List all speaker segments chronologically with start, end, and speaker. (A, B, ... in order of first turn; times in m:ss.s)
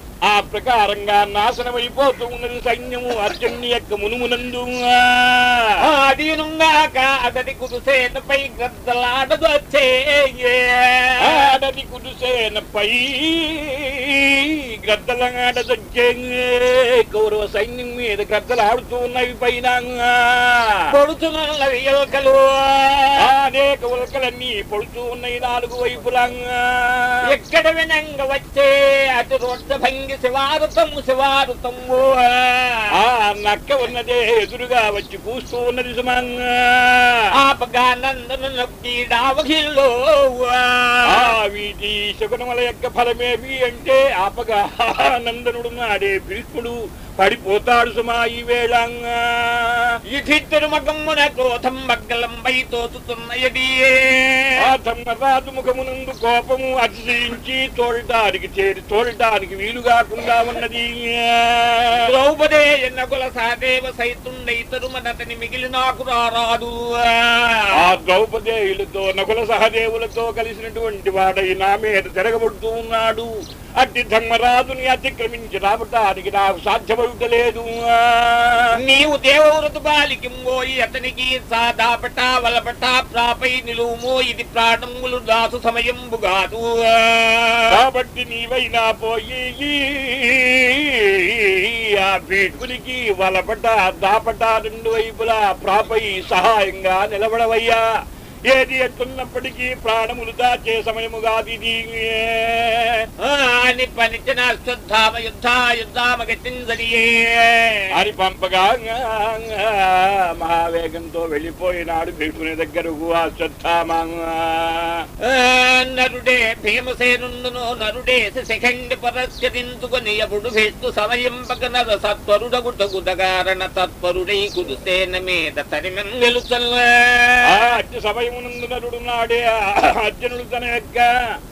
0:00.3-0:05.8 A
0:05.8-0:11.5 B
0:11.2-0:20.9 A
0:20.9-0:23.2 B
0:23.2-0:27.2 A
0:27.2-0:32.9 B
0:32.9-0:37.3 A
0:37.3-0:41.3 B
0:41.1-0:49.9 A
0:50.1-0:54.6 B
0:54.6-1:02.1 A
1:02.0-1:07.9 B
1:07.7-1:18.8 A
1:18.7-1:27.8 B
1:27.7-1:37.8 A
1:38.5-1:43.1 A
1:43.2-1:47.9 B
1:47.9-1:55.0 A
1:55.2-2:07.6 B
2:07.4-2:11.1 A